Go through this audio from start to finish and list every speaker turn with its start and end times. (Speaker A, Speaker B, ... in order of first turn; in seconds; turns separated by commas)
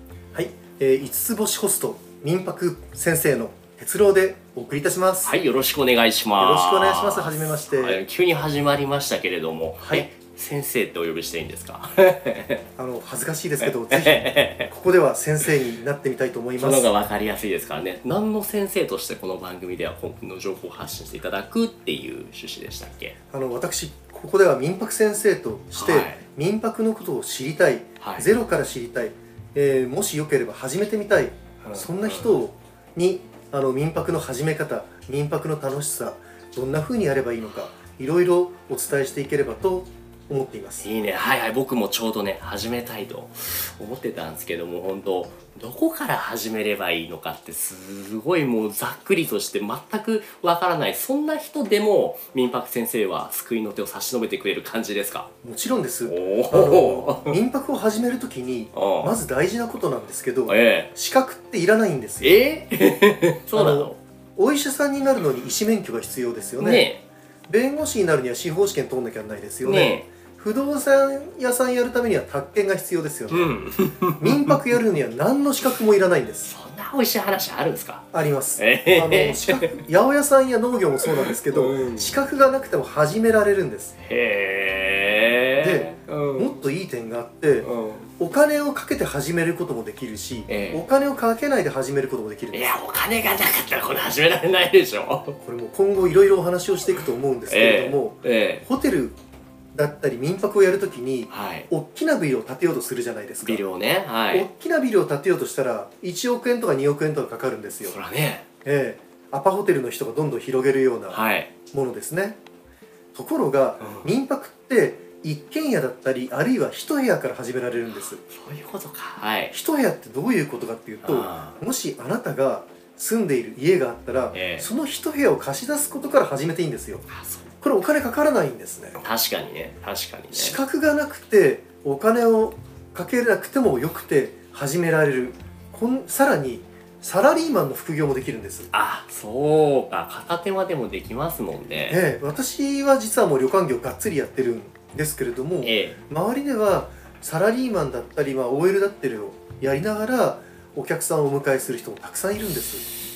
Speaker A: 0.3-5.3, Speaker B: 5.2-12.6, Speaker A: 6.4-8.0, Speaker A: 9.8-10.1, Speaker A: 12.8-16.9, Speaker B: 13.6-14.7, Speaker B: 16.6-23.1, Speaker A: 23.3-40.9, Speaker B: 25.7-26.2, Speaker B: 28.0-28.3, Speaker B: 31.6-32.4, Speaker B: 40.8-55.3, Speaker A: 55.4-62.4, Speaker B: 56.0-57.4, Speaker B: 58.7-59.1, Speaker B: 60.5-60.9, Speaker B: 62.2-64.0, Speaker A: 63.5-66.9, Speaker B: 66.6-67.0, Speaker A: 67.5-73.6, Speaker B: 69.6-70.1, Speaker B: 73.3-74.6, Speaker A: 74.2-76.5, Speaker B: 76.4-78.0, Speaker A: 78.1-83.9, Speaker B: 78.6-79.8, Speaker B: 81.0-82.2, Speaker B: 84.0-86.6, Speaker A: 85.6-87.7, Speaker B: 87.6-88.1, Speaker A: 88.2-92.8, Speaker B: 90.5-90.8, Speaker B: 92.5-95.4, Speaker A: 95.4-99.2, Speaker B: 97.5-98.6, Speaker A: 99.7-103.6, Speaker B: 101.3-101.7, Speaker B: 103.4-104.5, Speaker A: 104.3-108.0, Speaker B: 107.9-108.4, Speaker A: 108.6-111.2, Speaker B: 111.1-111.5, Speaker A: 111.7-112.4, Speaker A: 113.1-118.2, Speaker B: 113.8-114.1, Speaker B: 117.9-119.5, Speaker A: 119.5-127.1, Speaker B: 121.0-121.6, Speaker B: 124.3-124.7, Speaker B: 127.1-127.5, Speaker A: 127.6-129.0, Speaker B: 129.0-130.6, Speaker A: 130.3-138.7, Speaker B: 138.7-142.0, Speaker A: 141.9-152.8, Speaker B: 145.6-146.0